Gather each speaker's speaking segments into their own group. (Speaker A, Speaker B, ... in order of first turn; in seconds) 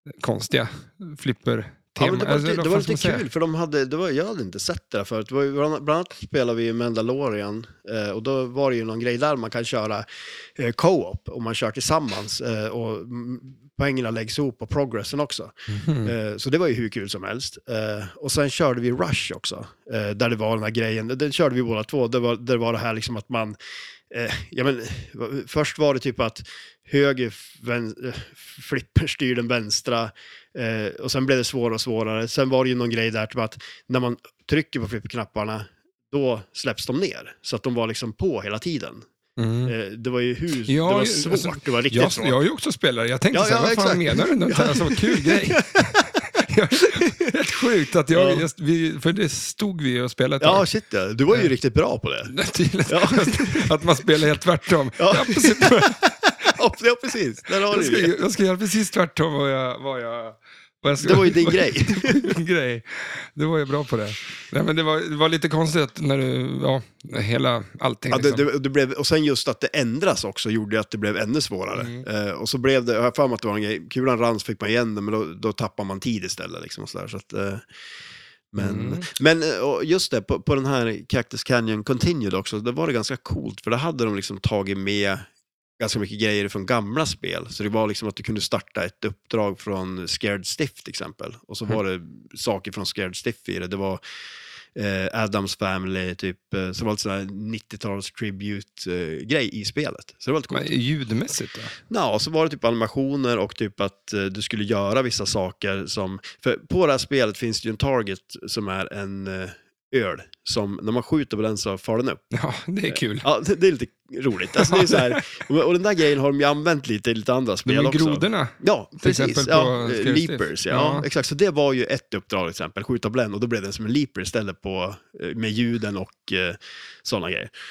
Speaker A: 0.2-3.3, 15.7-16.1, 39.4-39.7, 40.7-50.6, 52.3-56.5, 57.6-68.4, 71.7-72.0, 78.6-79.1, 100.5-101.7, 112.3-113.3, 114.6-115.2, 117.7-121.0
Speaker B: 2.0-15.5, 16.0-23.6, 24.1-39.0, 39.6-42.4, 43.3-46.0, 48.1-48.4, 50.4-52.3, 52.9-53.8, 55.0-58.1, 61.0-62.3, 68.1-77.7, 78.5-85.3, 85.8-94.0, 94.7-100.7, 101.9-112.2, 112.9-127.5